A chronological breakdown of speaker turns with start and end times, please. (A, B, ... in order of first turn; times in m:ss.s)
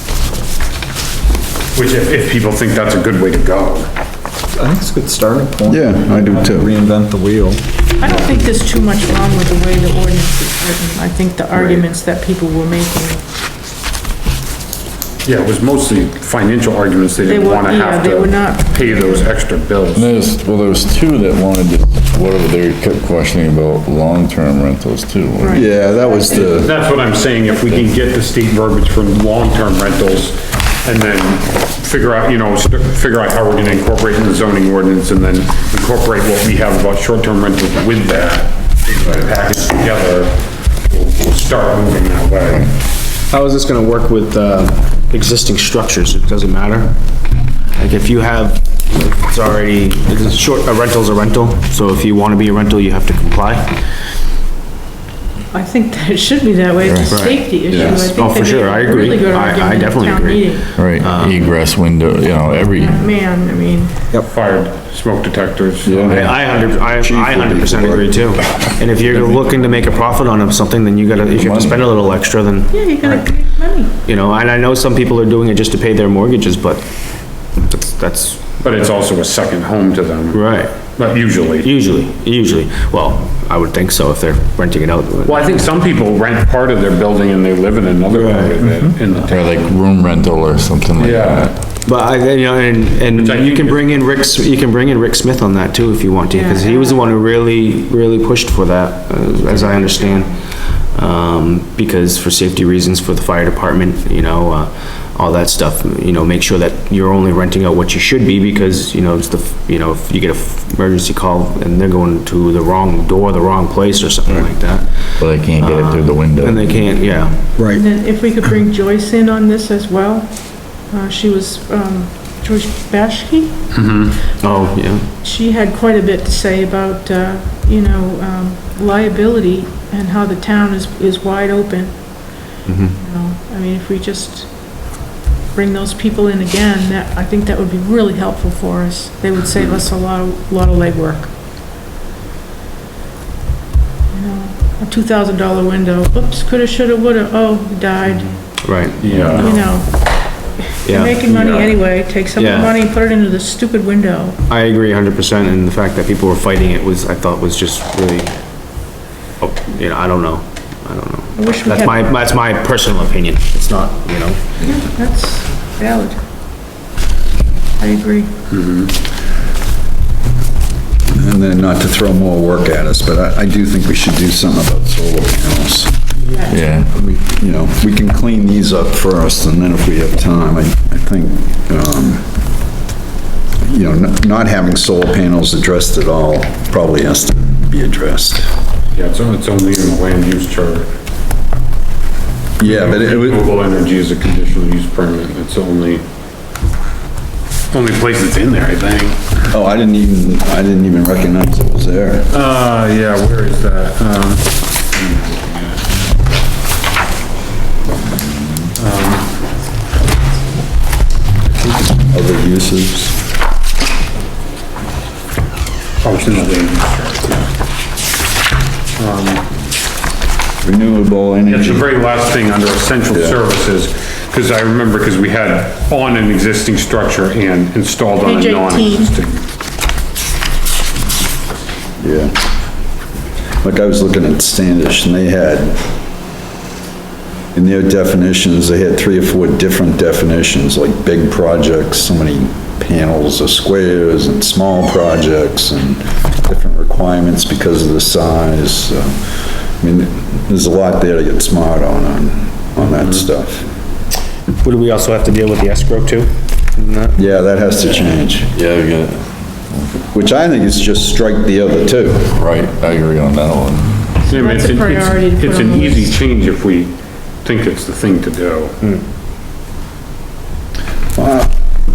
0:01.7-0:03.9 A
0:04.5-0:08.2 B
0:05.6-0:06.7 C
0:08.0-0:13.3 D
0:15.2-0:20.2 A
0:17.2-0:19.3 D
0:19.9-0:25.6 E
0:25.4-0:26.7 D
0:25.5-0:26.7 C
0:26.3-0:42.7 A
0:27.3-0:27.7 D
0:43.3-0:47.0 F
0:47.7-0:53.8 F
0:55.5-1:00.6 D
0:56.8-0:57.2 E
0:57.1-1:01.6 F
0:57.7-0:58.0 C
1:00.8-1:03.1 E
1:02.6-1:04.0 D
1:04.3-1:06.1 A
1:05.8-1:08.3 C
1:06.1-1:13.2 F
1:09.3-1:09.8 E
1:11.4-1:12.0 E
1:12.7-1:13.9 D
1:14.0-1:18.9 F
1:18.6-1:21.7 A
1:20.3-1:25.6 F
1:25.2-1:29.7 A
1:28.1-1:28.5 F
1:28.6-1:28.9 B
1:29.2-1:31.5 E
1:30.9-1:31.6 A
1:31.8-1:57.6 F
1:33.1-1:34.0 A
1:36.3-1:37.2 D
1:39.9-1:40.4 D
1:55.2-1:57.2 E
1:57.6-1:57.8 B
1:57.7-2:03.7 D
2:03.7-2:04.2 A
2:04.4-2:05.1 F
2:05.2-2:21.4 D
2:12.6-2:13.0 F
2:24.1-2:28.6 D
2:28.6-2:29.8 F
2:28.9-2:29.5 A
2:29.3-2:34.4 D
2:30.8-2:31.7 F
2:31.3-2:31.6 A
2:32.3-2:32.8 F
2:34.4-2:38.8 F
2:39.4-2:44.6 F
2:41.3-2:42.1 D
2:44.6-2:46.2 D
2:47.8-2:48.3 D
2:48.5-2:48.9 A
2:51.1-2:56.1 C
2:56.5-2:56.9 E
2:56.9-3:02.4 C
3:03.6-3:08.5 C
3:08.9-3:10.9 A
3:12.6-3:13.5 C
3:12.6-3:16.0 A
3:17.7-3:19.3 A
3:19.5-3:22.3 C
3:22.3-3:25.8 A
3:28.8-3:29.5 A
3:31.5-3:33.2 C
3:36.0-3:37.5 A
3:39.0-3:39.4 A
3:40.6-3:41.9 C
3:41.5-3:49.4 A
3:43.1-3:43.4 C
3:48.2-3:49.2 D
3:52.0-3:52.3 C
3:53.6-3:55.9 C
3:57.5-4:13.6 C
4:14.6-4:17.2 F
4:17.2-4:18.5 C
4:18.5-4:19.2 E
4:20.1-4:22.3 C
4:22.3-4:24.1 E
4:24.2-4:26.2 D
4:24.3-4:28.8 A
4:31.2-4:31.5 C